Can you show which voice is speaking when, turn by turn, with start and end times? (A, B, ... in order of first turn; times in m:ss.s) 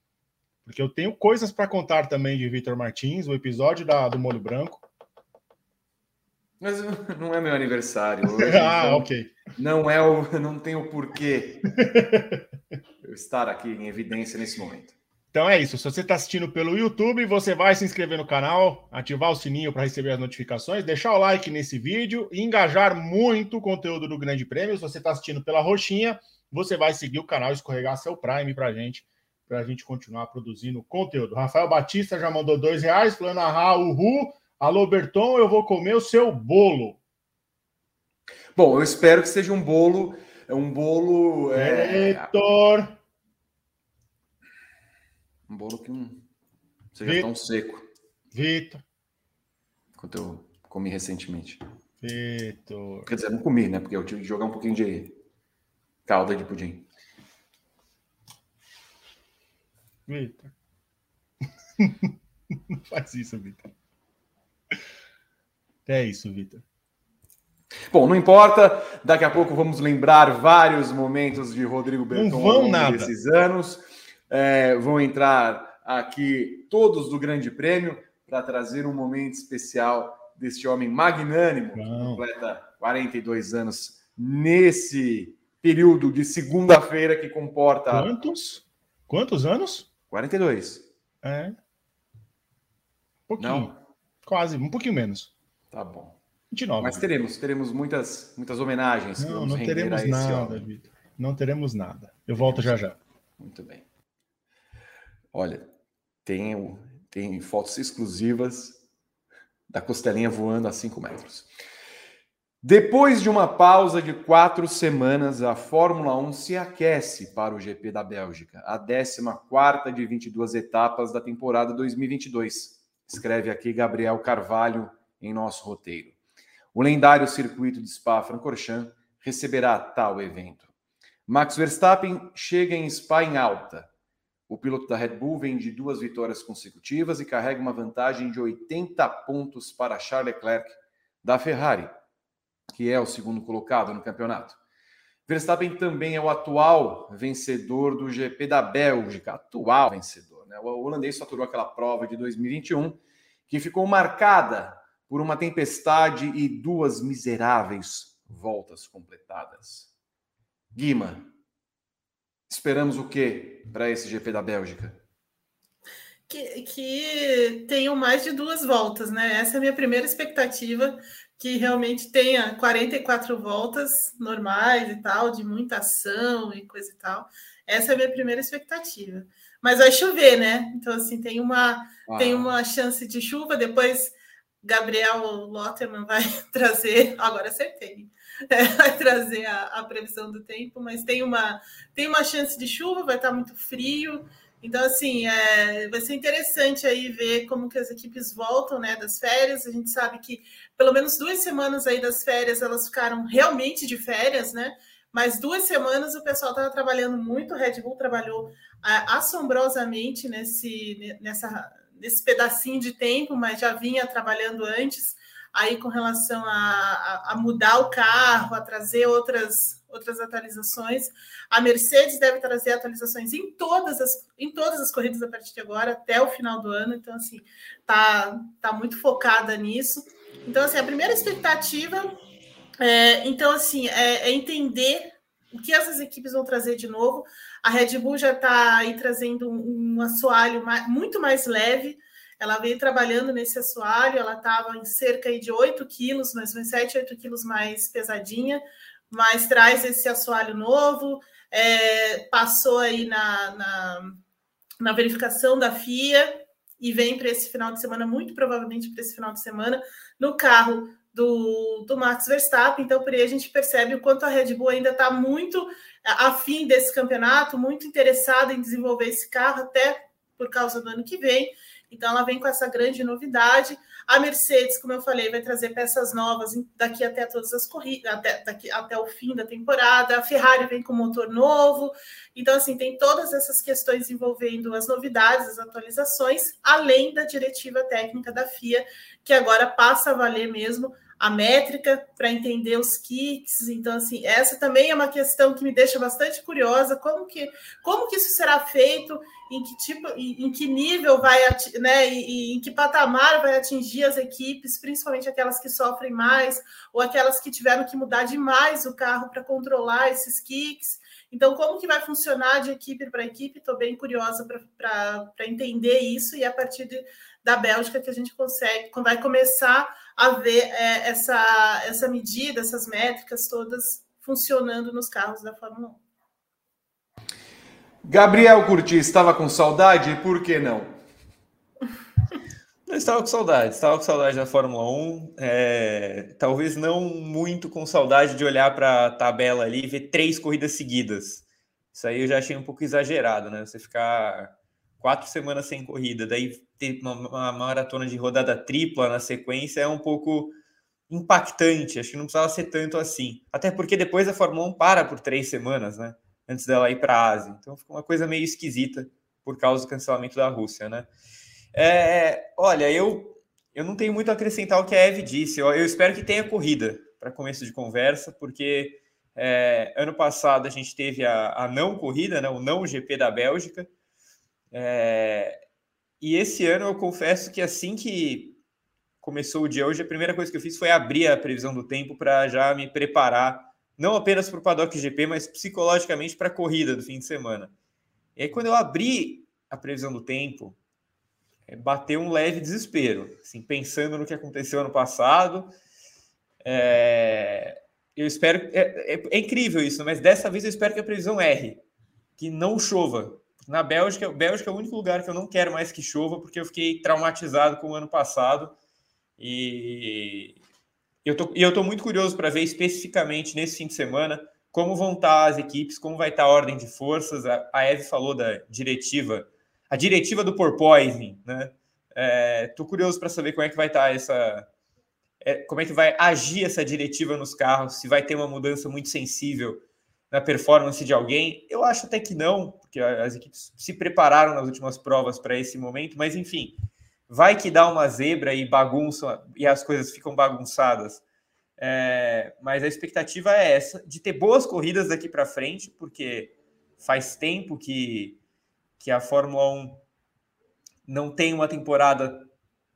0:00.6-0:04.8 A
0:06.6-0:11.6 B
0:08.2-0:09.3 A
0:11.7-0:12.4 A
0:13.0-0:14.9 B
0:15.3-0:37.0 A
0:38.5-0:42.3 B
0:41.5-0:42.9 A
0:45.5-0:46.2 B
0:46.9-0:47.8 B
0:48.3-0:48.8 A
0:50.0-0:51.6 B
0:52.0-0:53.1 A
0:53.1-0:55.1 B
0:56.0-0:56.9 B
1:00.1-1:00.5 A
1:01.8-1:03.7 A
1:05.8-1:06.6 A
1:07.9-1:28.1 B
1:12.1-1:13.1 A
1:21.8-1:22.2 A
1:27.9-1:29.9 A
1:30.1-1:30.8 B
1:31.2-1:31.6 A
1:33.3-1:33.7 A
1:33.4-1:33.7 B
1:34.2-1:35.3 A
1:35.7-1:36.2 B
1:36.5-1:37.0 A
1:36.8-1:40.6 B
1:39.2-1:43.0 A
1:42.4-1:42.8 B
1:43.4-1:43.8 B
1:45.3-1:45.7 B
1:46.2-1:48.8 B
1:49.7-1:51.5 B
1:52.6-2:06.2 B
2:06.7-2:10.7 B
2:11.3-2:13.9 B
2:14.5-2:21.9 B
2:22.7-2:24.6 B
2:25.3-2:39.9 B
2:40.7-2:41.3 B
2:42.5-2:45.0 B
2:46.3-3:52.1 C
3:02.1-3:02.5 B
3:52.8-4:14.2 C
4:14.8-5:26.0 C
5:28.0-5:31.0 B
5:32.9-5:50.6 D
5:51.1-6:01.1 D
6:01.7-6:13.9 D
6:14.7-6:15.6 D
6:16.2-6:18.6 D
6:19.2-6:27.7 D
6:28.4-6:30.8 D
6:31.7-6:35.7 D
6:36.6-6:41.8 D
6:42.4-6:48.7 D
6:49.4-6:50.6 D
6:51.2-7:04.7 D
7:05.4-7:16.8 D
7:17.3-7:21.2 D
7:21.8-7:28.4 D
7:29.0-7:30.0 D
7:31.0-7:32.5 D